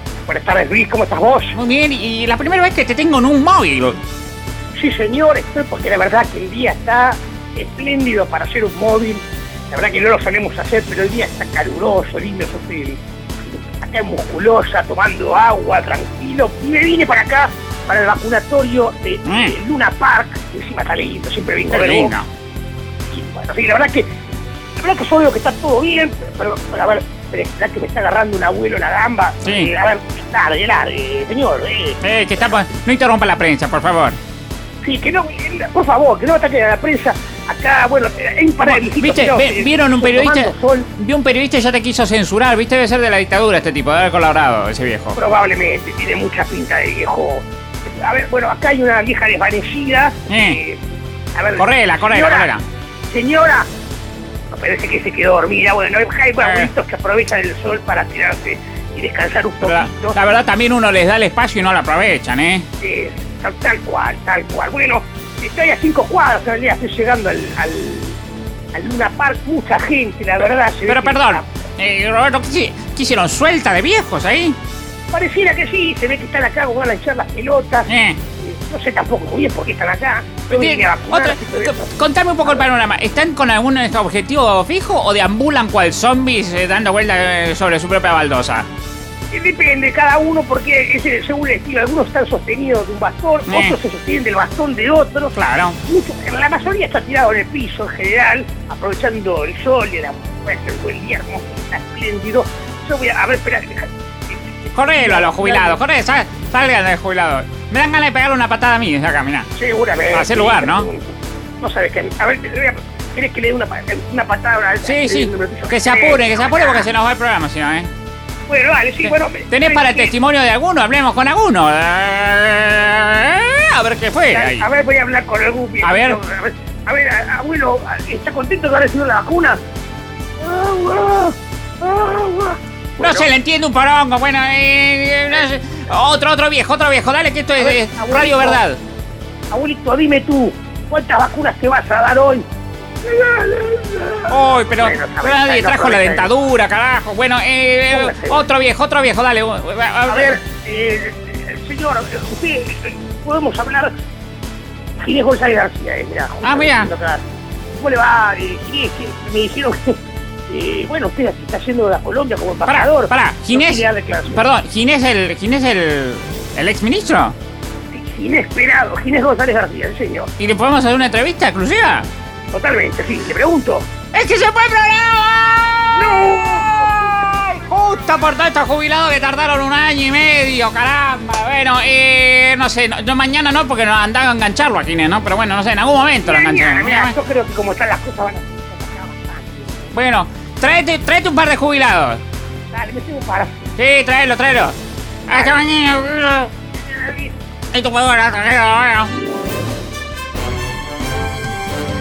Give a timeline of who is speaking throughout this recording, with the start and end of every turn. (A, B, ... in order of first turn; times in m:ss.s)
0:00.3-0:01.6 A
0:01.6-0:04.0 B
0:04.7-0:22.1 A
0:19.2-0:19.5 B
0:21.7-0:22.3 B
0:23.1-0:24.1 A
0:24.8-0:32.5 A
0:29.4-0:29.7 B
0:32.0-0:34.2 B
0:34.8-0:40.9 A
0:38.6-0:45.2 B
0:45.2-0:50.8 A
0:50.3-0:50.6 B
0:51.3-0:52.5 A
0:51.6-0:52.6 B
0:53.1-0:53.7 A
0:54.5-1:00.2 A
0:56.4-0:56.7 B
0:59.6-1:02.6 B
1:02.8-1:08.2 A
1:08.7-1:11.4 A
1:10.9-1:14.6 B
1:15.1-1:22.6 A
1:17.9-1:18.2 B
1:20.5-1:28.7 B
1:29.3-1:45.8 A
1:33.5-1:33.8 B
1:35.3-1:35.8 B
1:44.7-1:49.5 B
1:49.6-1:51.1 A
1:50.1-1:50.9 B
1:51.6-1:56.9 A
1:54.8-1:57.9 B
1:58.5-2:00.1 A
1:59.5-2:04.6 B
2:04.3-2:09.6 A
2:05.8-2:06.2 B
2:10.4-2:13.3 A
2:13.0-2:18.8 B
2:17.6-2:18.6 A
2:19.5-2:22.4 A
2:23.0-2:26.3 A
2:24.3-2:30.4 B
2:27.9-2:28.4 A
2:30.1-2:33.9 A
2:35.0-2:37.2 A
2:36.4-2:36.9 B
2:37.8-2:44.4 A
2:42.7-2:47.4 B
2:47.9-2:50.3 A
2:50.4-2:52.1 B
2:52.5-2:53.9 A
2:54.1-3:07.1 B
2:55.9-2:57.2 A
3:06.2-3:09.9 A
3:09.9-3:12.2 B
3:12.7-3:13.5 A
3:13.8-3:16.5 B
3:15.3-3:15.6 A
3:16.8-3:17.3 A
3:17.7-3:19.1 B